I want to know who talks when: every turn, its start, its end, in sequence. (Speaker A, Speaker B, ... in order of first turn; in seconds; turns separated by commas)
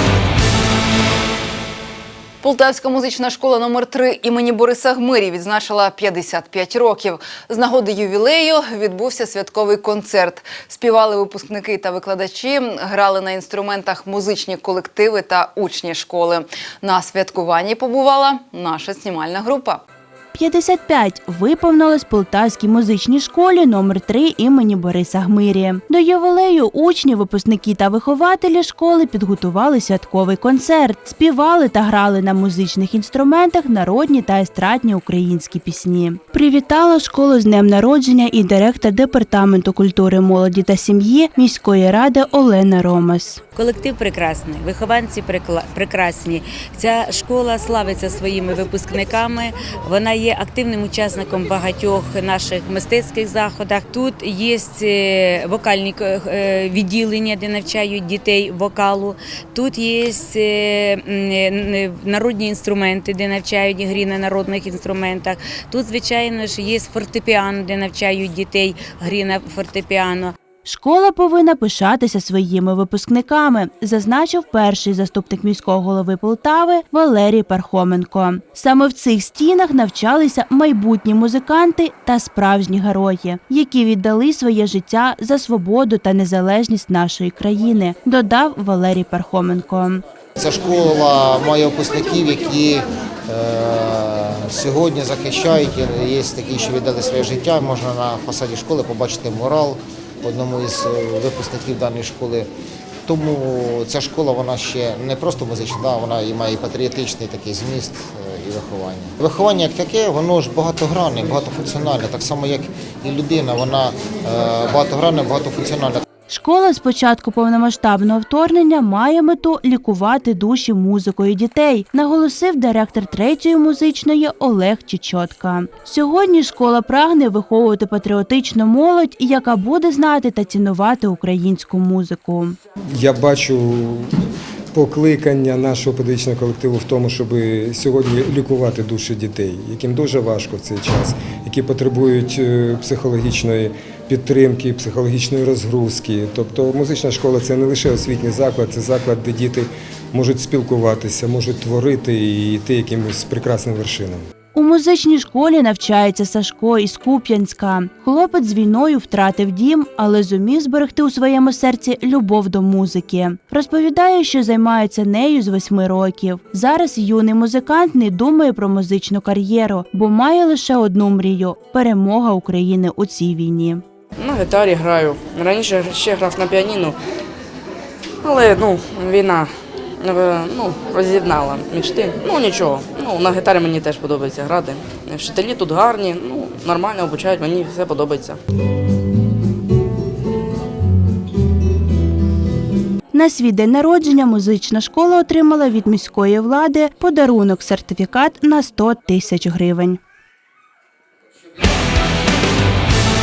Speaker A: 2.4-19.8, Speaker B: 20.3-43.4, Speaker C: 43.5-70.3, Speaker B: 70.6-90.0, Speaker D: 90.4-102.5, Speaker D: 103.1-116.0, Speaker B: 116.3-132.6, Speaker E: 132.9-134.2, Speaker E: 134.7-154.3, Speaker B: 154.5-173.8, Speaker F: 174.2-177.0, Speaker F: 178.2-188.4, Speaker B: 193.1-200.0